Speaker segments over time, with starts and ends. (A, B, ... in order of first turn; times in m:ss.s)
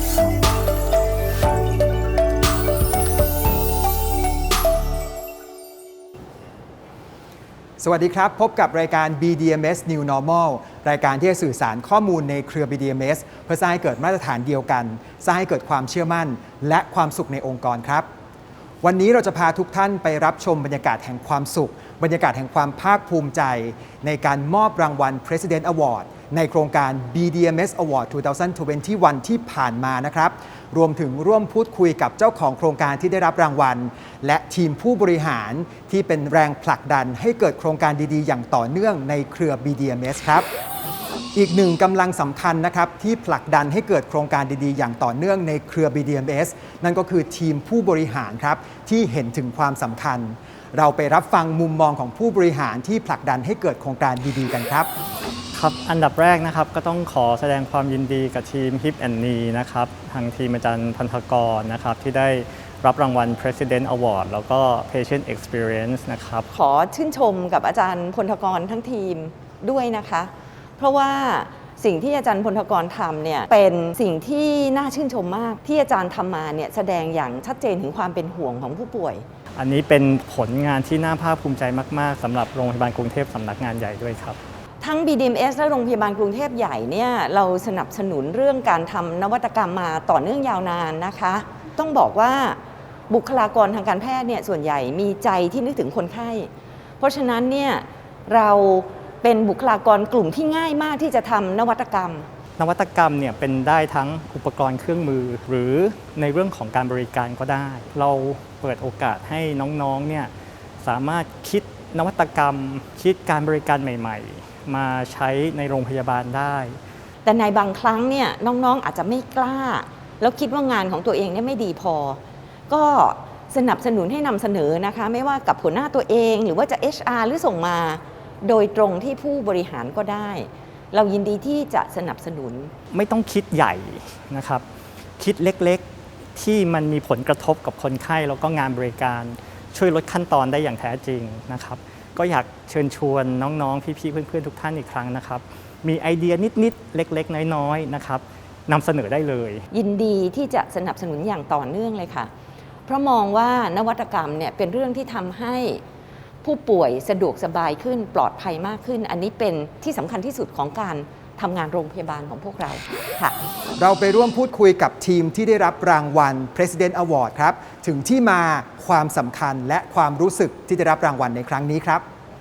0:07.8-0:18.1 A
0:18.8-0:40.5 A
0:41.3-0:54.9 A
0:55.5-1:06.5 B
1:06.5-1:19.3 C
1:19.6-1:24.4 B
1:24.8-1:42.3 C
1:42.6-1:56.8 B
1:57.2-2:12.7 C
2:12.9-2:14.6 B
2:15.2-2:29.6 B
2:29.7-2:32.3 C
2:32.9-2:35.8 C
2:36.4-2:43.4 C
2:43.8-2:52.0 A